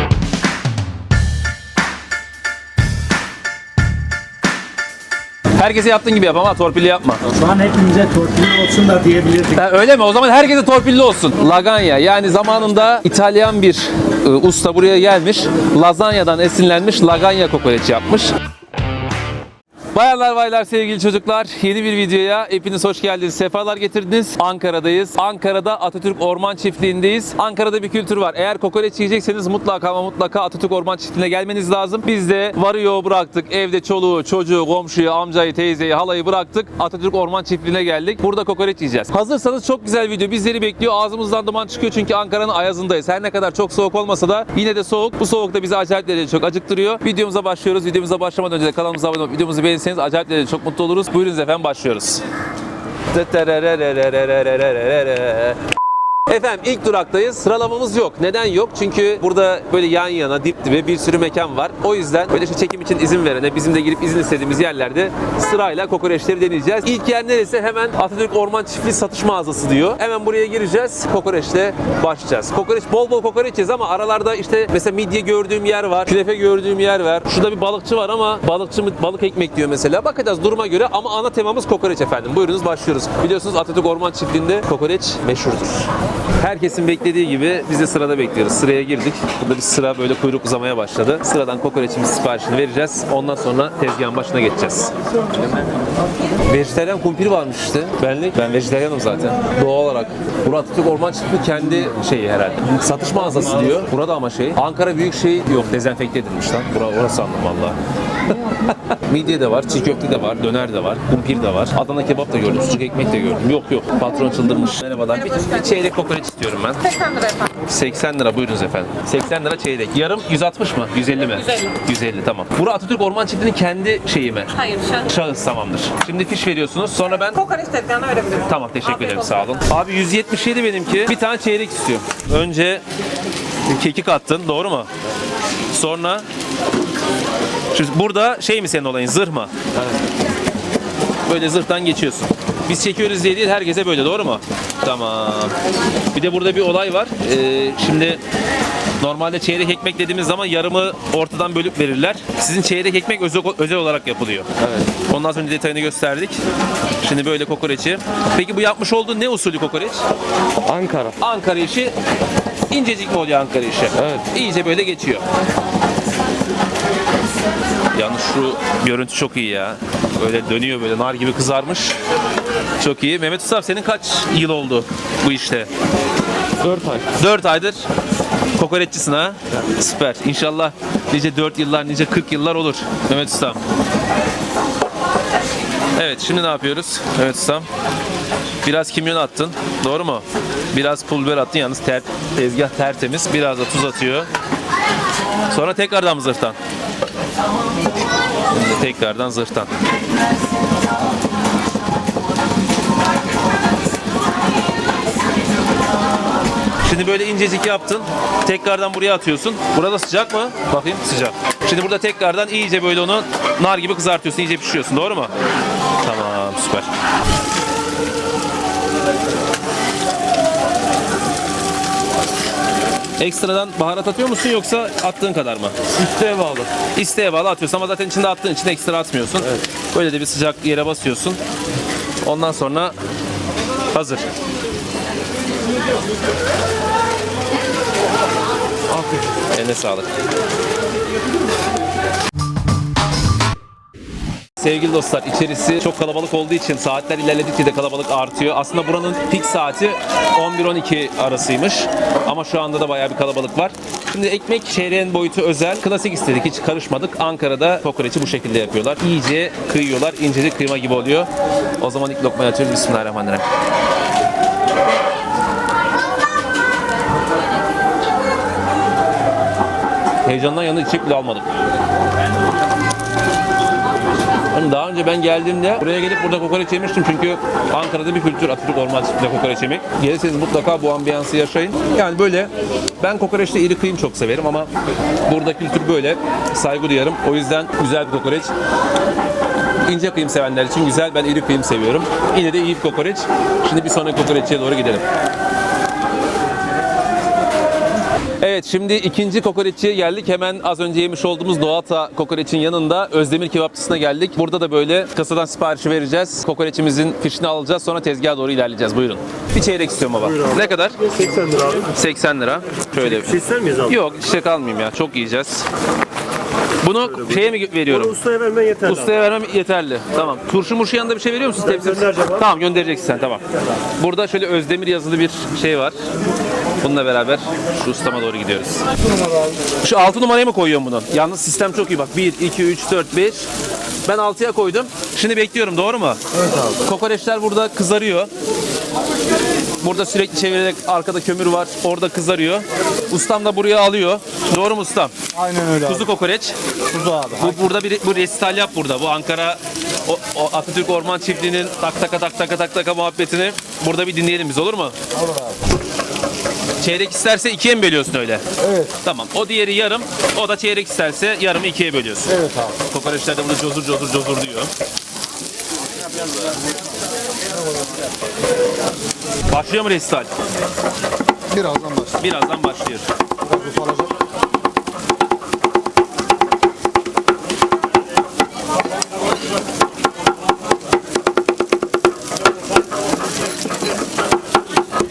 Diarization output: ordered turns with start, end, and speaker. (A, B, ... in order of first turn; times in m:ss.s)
0:05.5-0:07.2 A
0:07.2-0:09.6 B
0:09.6-0:18.3 A
0:19.9-0:52.2 A
0:53.1-0:55.6 A
0:56.3-1:25.9 A
1:26.4-1:34.9 A
1:36.4-1:47.8 A
1:48.3-2:07.6 A
1:57.0-1:57.5 C
2:07.5-2:08.3 C
2:08.4-2:12.8 A
2:13.7-2:14.9 A
2:15.7-2:16.2 A
2:17.7-2:19.5 A
2:21.2-2:25.5 A
2:26.1-2:28.2 A
2:29.0-2:34.5 A
2:34.6-2:34.9 D
2:35.0-2:36.4 A
2:37.0-2:40.0 A
2:40.6-2:41.1 D
2:41.2-2:41.9 A
2:42.7-2:45.2 A
2:43.9-2:44.3 D
2:47.9-2:52.0 A
2:52.8-2:55.7 A
2:56.6-2:57.0 D
2:57.0-2:57.8 A
2:58.6-3:03.6 A
3:06.0-3:07.7 A
3:08.6-3:14.3 A
3:15.5-3:16.6 A
3:18.5-3:19.7 A
3:26.8-3:35.3 A
3:36.0-3:36.9 A
3:43.2-3:45.7 A
3:45.9-3:46.7 D
3:46.9-3:51.4 A
3:49.4-3:49.6 D
3:52.2-3:52.9 A
3:53.9-3:54.2 A
3:59.5-4:00.1 A
4:04.6-4:23.4 A
4:30.2-4:31.4 A
4:34.5-4:44.7 A
4:45.3-4:48.5 A
4:49.8-4:55.0 A
4:58.4-5:11.0 A
5:10.2-5:11.9 E
5:11.9-5:15.6 A
5:13.0-5:14.0 E
5:16.8-5:18.2 A
5:17.1-5:19.2 E
5:18.8-5:23.4 A
5:21.6-5:22.4 E
5:24.0-5:25.9 A
5:26.8-5:28.8 A
5:29.8-5:33.4 A
5:34.0-5:36.2 A
5:36.8-5:38.3 A
5:39.8-5:45.1 A
5:45.4-5:45.7 C
5:45.7-5:46.6 A
5:46.9-5:47.3 C
5:47.4-5:54.9 A
5:55.2-5:55.5 C
5:56.8-5:58.4 A
5:58.6-5:58.9 C
5:59.0-6:04.7 A
6:02.4-6:02.7 C
6:09.5-6:10.3 A
6:11.5-6:12.1 C
6:12.2-6:13.1 A
6:13.4-6:14.1 C